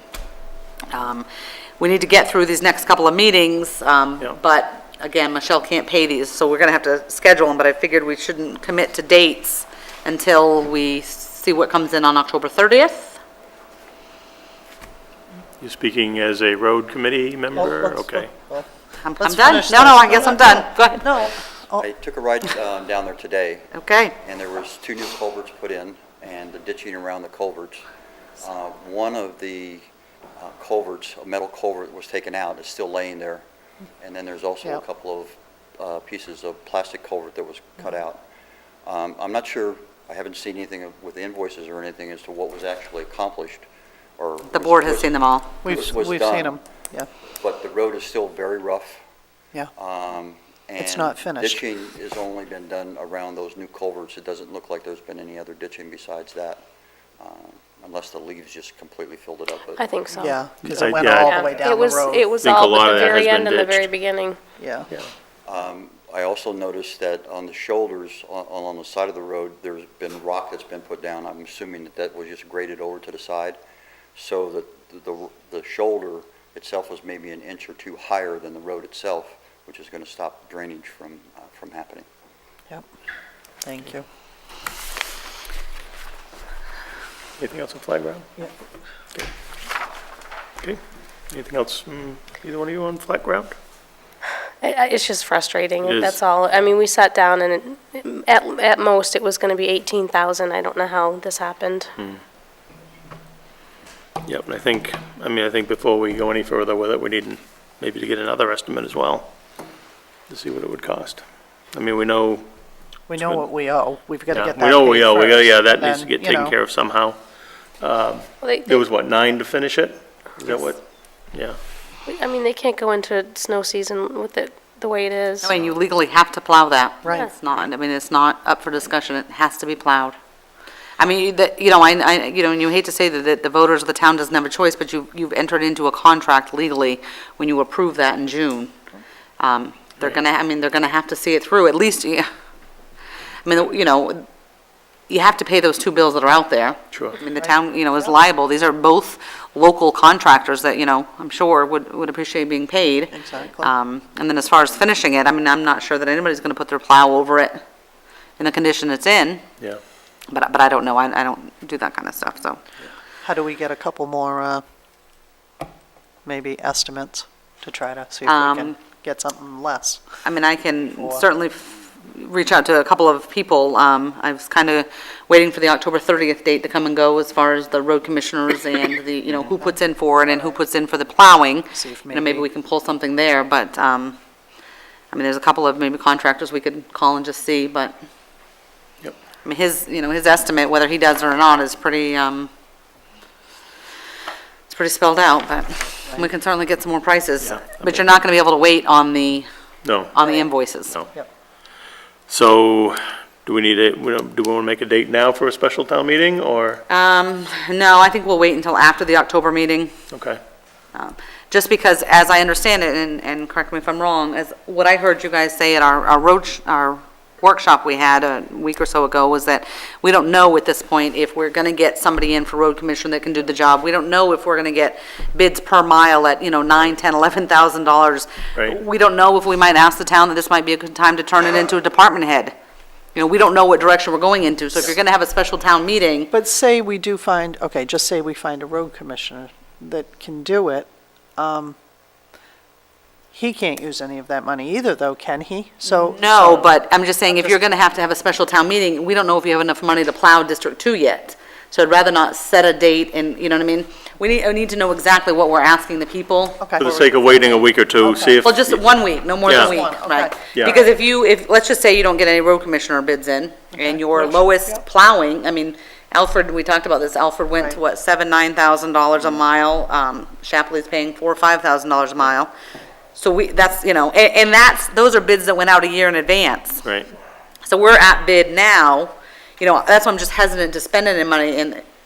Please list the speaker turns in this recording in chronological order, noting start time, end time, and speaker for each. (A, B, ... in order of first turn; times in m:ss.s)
0:00.9-0:01.3 A
0:01.8-0:13.2 A
0:15.6-0:18.3 B
0:17.5-0:18.7 C
0:19.0-0:21.1 A
0:19.2-0:21.8 C
0:20.1-0:20.6 D
0:21.1-0:27.8 D
0:23.7-0:24.2 A
0:28.4-0:33.4 D
0:34.0-0:38.2 D
0:38.8-0:43.7 D
0:44.2-0:46.6 D
0:44.5-0:45.5 A
0:45.6-0:47.1 C
0:47.4-0:49.0 D
0:49.8-0:56.6 D
0:50.8-0:51.6 C
0:57.2-0:59.9 D
0:59.8-1:04.4 E
1:00.1-1:02.3 C
1:00.6-1:01.6 B
1:02.4-1:03.9 B
1:04.6-1:04.9 C
1:05.4-1:13.6 D
1:14.2-1:22.0 D
1:23.6-1:24.0 C
1:27.4-1:28.2 B
1:31.3-1:33.6 B
1:34.6-1:41.9 E
1:35.8-1:36.2 B
1:44.2-1:49.3 B
1:50.3-1:52.4 B
1:53.1-1:56.5 C
1:53.2-1:53.4 B
1:54.3-1:57.2 B
1:57.8-2:01.6 B
1:58.4-1:58.8 E
2:02.0-2:05.5 E
2:05.4-2:10.2 A
2:11.0-2:18.7 A
2:19.4-2:22.3 A
2:23.4-2:24.2 A
2:25.1-2:37.6 A
2:26.9-2:27.2 B
2:33.1-2:33.7 C
2:38.4-2:39.4 A
2:40.3-2:42.6 A
2:43.2-2:44.6 C
2:46.2-2:50.0 C
2:48.2-2:48.8 A
2:50.2-3:04.2 A
2:51.0-2:51.2 C
3:01.7-3:02.4 C
3:05.1-3:07.9 A
3:09.4-3:12.5 A
3:14.7-3:19.4 A
3:17.4-3:18.1 B
3:19.8-3:20.1 B
3:20.1-3:21.0 A
3:20.8-3:21.1 B
3:22.3-3:26.8 B
3:26.9-3:29.9 A
3:30.1-3:30.4 B
3:30.9-3:52.5 A
3:53.1-3:56.3 A
3:56.3-4:01.8 C
4:03.3-4:06.6 C
4:05.8-4:17.0 A
4:16.6-4:17.0 C
4:16.8-4:18.8 B
4:18.0-4:18.4 C
4:18.4-4:32.5 A
4:19.4-4:19.8 B
4:19.5-4:20.3 C
4:20.5-4:20.8 B
4:23.8-4:24.4 C
4:33.1-4:36.8 A
4:36.8-4:37.1 B
4:37.6-4:41.8 A